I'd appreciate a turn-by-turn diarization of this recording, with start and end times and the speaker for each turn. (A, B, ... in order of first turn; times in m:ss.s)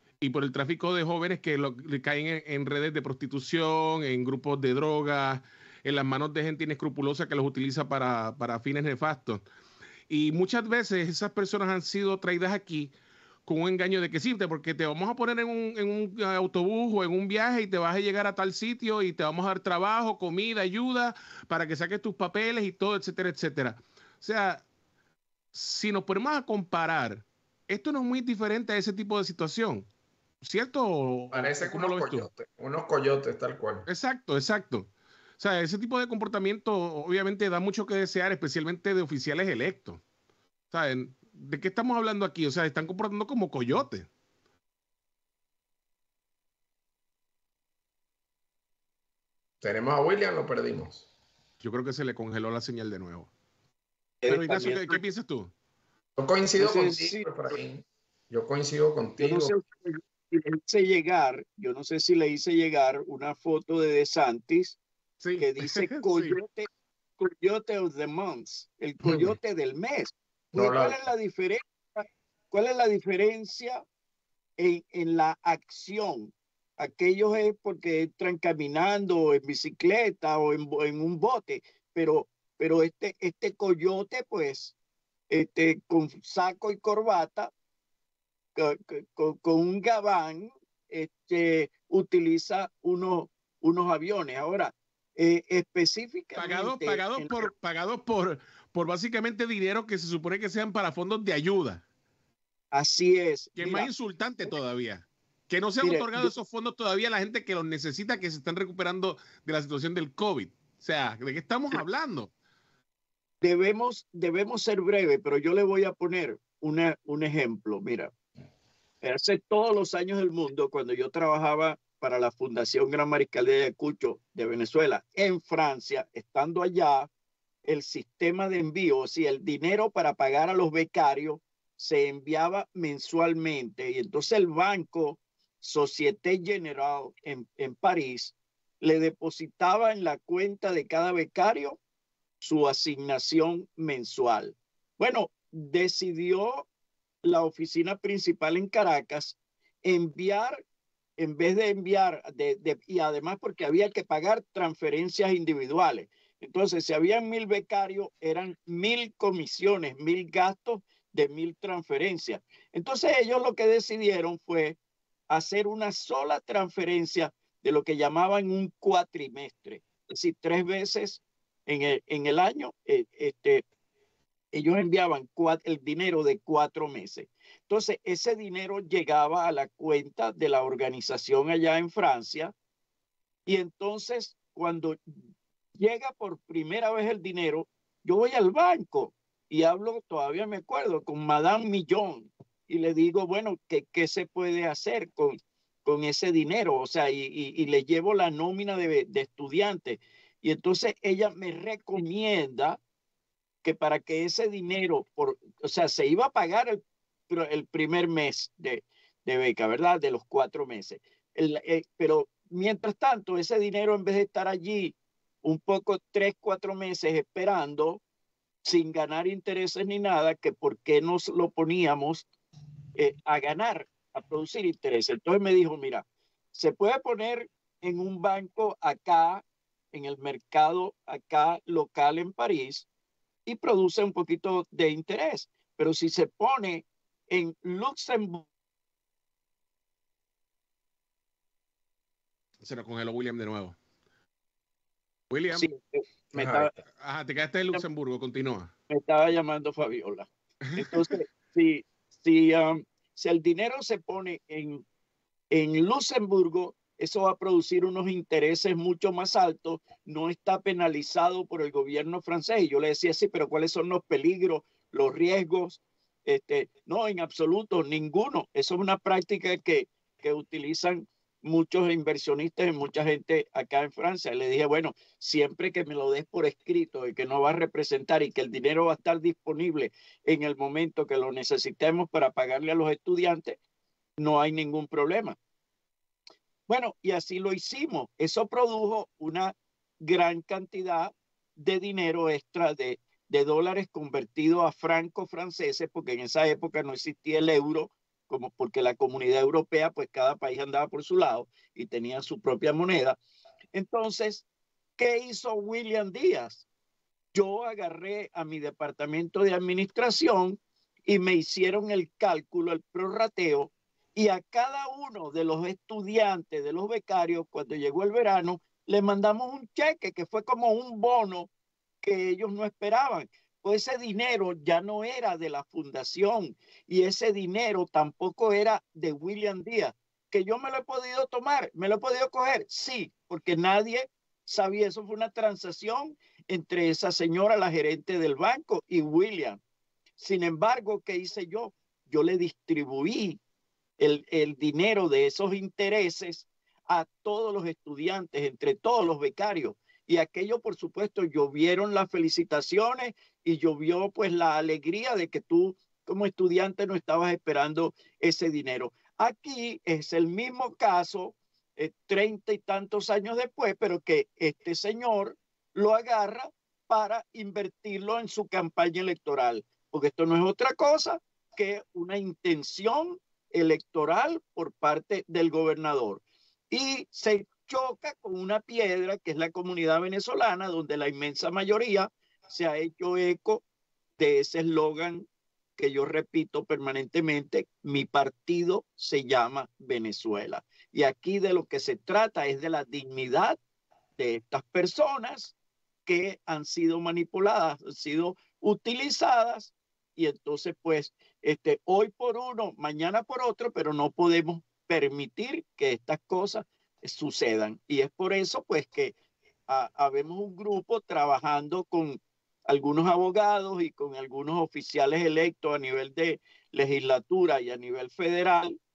0:00.2-0:09.4 A
0:10.1-0:12.9 A
0:13.5-0:24.6 A
0:25.5-0:29.9 A
0:30.4-0:32.3 A
0:31.3-0:33.9 B
0:33.9-0:40.0 A
0:40.7-0:44.1 A
0:49.6-0:51.1 B
0:51.6-0:53.3 A
0:54.2-0:55.0 C
0:54.3-0:55.5 A
0:56.2-0:59.5 B
0:56.6-0:57.3 C
0:59.2-1:04.8 C
1:05.2-1:06.4 A
1:05.4-1:06.7 C
1:07.2-1:13.8 C
1:10.5-1:11.0 B
1:14.6-1:24.8 C
1:25.3-1:27.5 C
1:28.6-1:37.5 C
1:36.4-1:41.8 A
1:42.7-1:43.9 C
1:43.6-1:52.3 A
1:45.8-1:46.3 C
1:53.4-1:58.1 C
1:59.0-2:07.1 C
2:07.7-2:21.8 C
2:22.4-2:26.7 C
2:27.2-2:30.6 C
2:31.2-2:44.8 C
2:45.3-2:53.6 C
2:54.5-3:02.5 C
3:03.5-3:05.2 C
3:05.8-3:22.8 C
3:23.6-3:38.0 C
3:38.6-3:42.3 C
3:43.0-3:52.9 C
3:53.5-3:58.5 C
4:02.6-4:03.8 A
4:05.3-4:05.7 A
4:05.5-4:06.7 C
4:06.3-4:06.8 B
4:07.0-4:08.7 A
4:08.9-4:14.8 C
4:10.8-4:11.0 A
4:15.5-4:43.6 C
4:44.2-4:45.4 C
4:46.7-5:03.2 C
5:03.7-5:04.4 C
5:05.0-5:06.6 C
5:07.3-5:21.5 C
5:22.0-5:39.6 C
5:40.2-5:43.4 C
5:44.0-6:23.6 C
6:24.2-6:33.6 C
6:34.2-6:35.5 C
6:36.1-6:49.2 C
6:49.7-6:58.8 C